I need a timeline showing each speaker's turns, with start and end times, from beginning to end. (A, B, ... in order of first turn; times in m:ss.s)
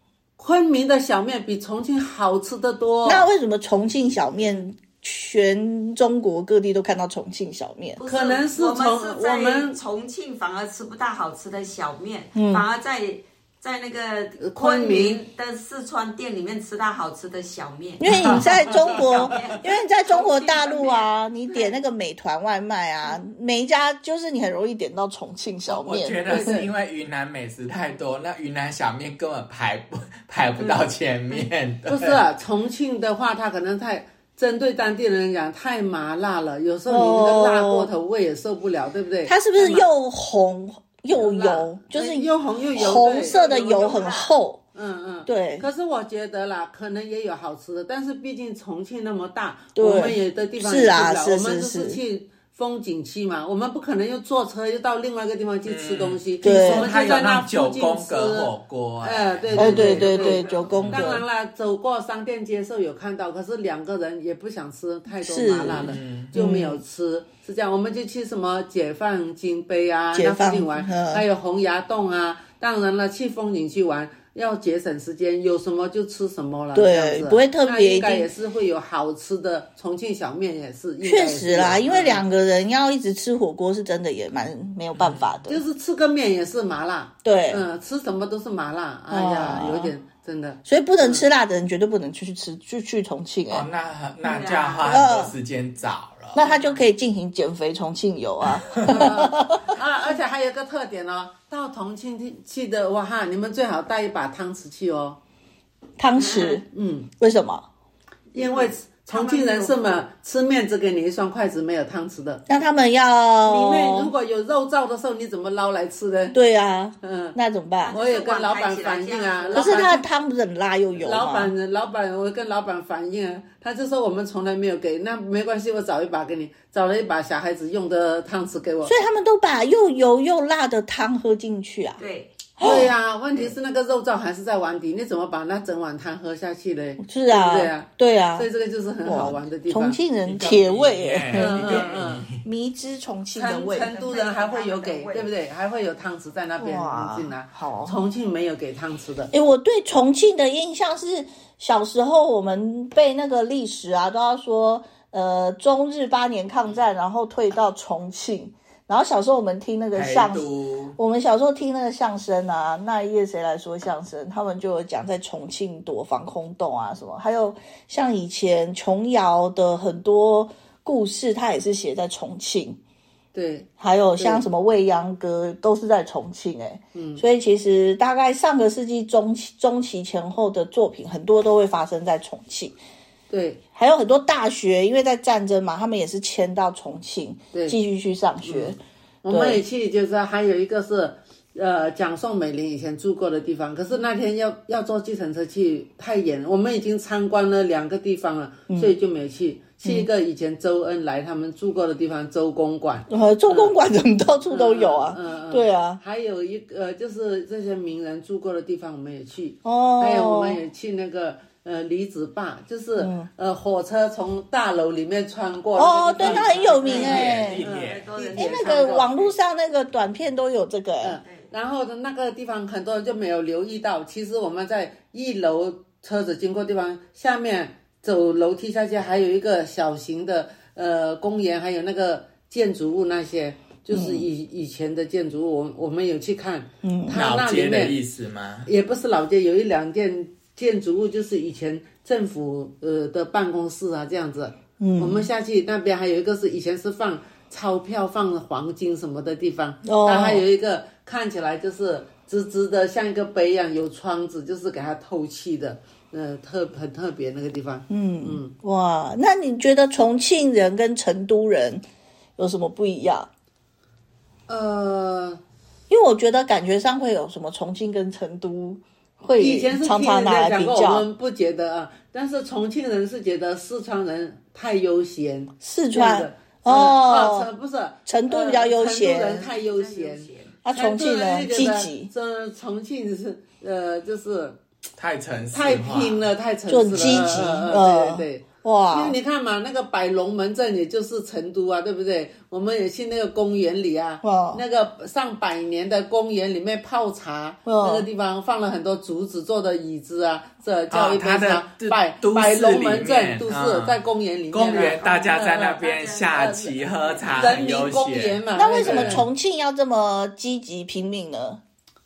0:00.4-0:03.3 A
0:03.0-0:08.0 B
0:08.0-0:21.7 C
0:08.0-0:09.8 A
0:12.3-0:12.6 B
0:14.4-0:15.2 A
0:18.0-0:26.6 B
0:18.1-0:18.5 D
0:18.7-0:19.5 A
0:25.7-0:32.2 D
0:26.3-0:26.6 A
0:31.9-0:39.9 A
0:36.9-0:37.9 B
0:39.3-0:44.6 B
0:41.1-0:44.1 A
0:42.9-0:44.3 C
0:44.7-1:22.2 A
0:45.2-0:45.6 B
0:49.7-0:52.0 B
0:55.6-1:01.2 D
0:56.4-0:56.9 B
0:59.5-1:01.2 B
1:05.2-1:06.8 B
1:05.8-1:06.3 D
1:10.1-1:11.2 B
1:16.7-1:18.3 B
1:21.0-1:25.6 B
1:24.9-1:25.2 D
1:25.5-1:31.2 A
1:27.2-1:27.6 B
1:29.1-1:29.9 B
1:30.6-1:33.7 B
1:33.5-1:36.4 D
1:34.2-1:34.9 C
1:34.8-1:35.3 B
1:36.3-1:39.8 B
1:36.4-1:36.8 C
1:38.6-1:39.1 D
1:38.9-1:45.2 A
1:46.0-1:46.6 B
1:46.2-1:46.6 C
1:46.7-1:47.1 A
1:47.2-1:47.6 B
1:48.3-1:49.9 C
1:48.3-1:52.4 A
1:52.5-1:54.1 B
1:53.4-1:56.4 A
1:56.3-1:58.0 B
1:57.0-1:57.4 A
1:57.8-2:00.0 C
1:57.9-2:00.0 A
1:59.5-2:01.5 B
2:01.0-2:08.9 A
2:08.8-2:12.0 B
2:12.0-2:12.3 C
2:12.6-2:12.9 B
2:12.6-2:20.0 A
2:17.0-2:18.5 B
2:19.0-2:23.9 B
2:20.2-2:22.4 D
2:21.3-2:22.3 A
2:23.3-2:29.3 A
2:23.8-2:25.3 C
2:26.6-2:28.0 B
2:29.3-2:52.8 B
2:39.9-2:41.0 D
2:53.3-2:54.4 A
2:53.8-3:02.8 B
2:56.9-2:57.2 A
3:03.3-3:03.6 A
3:03.7-3:09.6 B
3:08.4-3:08.7 A
3:09.2-3:23.7 A
3:18.7-3:18.9 B
3:19.8-3:20.1 B
3:23.1-3:26.0 B
3:24.5-3:39.2 A
3:29.6-3:30.6 B
3:33.0-3:33.3 B
3:35.8-3:37.6 B
3:36.2-3:39.3 C
3:36.8-3:38.1 D
3:38.3-3:41.2 B
3:41.0-3:58.0 A
3:53.9-3:54.3 B
3:56.8-3:57.2 B
3:57.1-3:58.7 D
3:58.6-4:18.5 A
4:04.8-4:05.3 B
4:09.8-4:10.4 B
4:17.9-4:21.8 B
4:22.4-4:23.3 B
4:24.5-4:25.4 A
4:25.9-4:31.0 B
4:29.3-4:44.6 A
4:35.6-4:37.5 B
4:38.0-4:39.5 B
4:39.4-4:40.6 C
4:40.6-4:42.1 B
4:45.0-4:46.3 D
4:45.5-5:05.8 A
4:46.7-4:49.2 B
4:54.2-4:54.6 B
4:57.6-4:58.1 B
5:00.9-5:04.0 D
5:04.5-5:09.2 D
5:04.6-5:07.6 C
5:06.3-5:06.7 A
5:07.3-5:09.2 A
5:08.5-5:11.6 B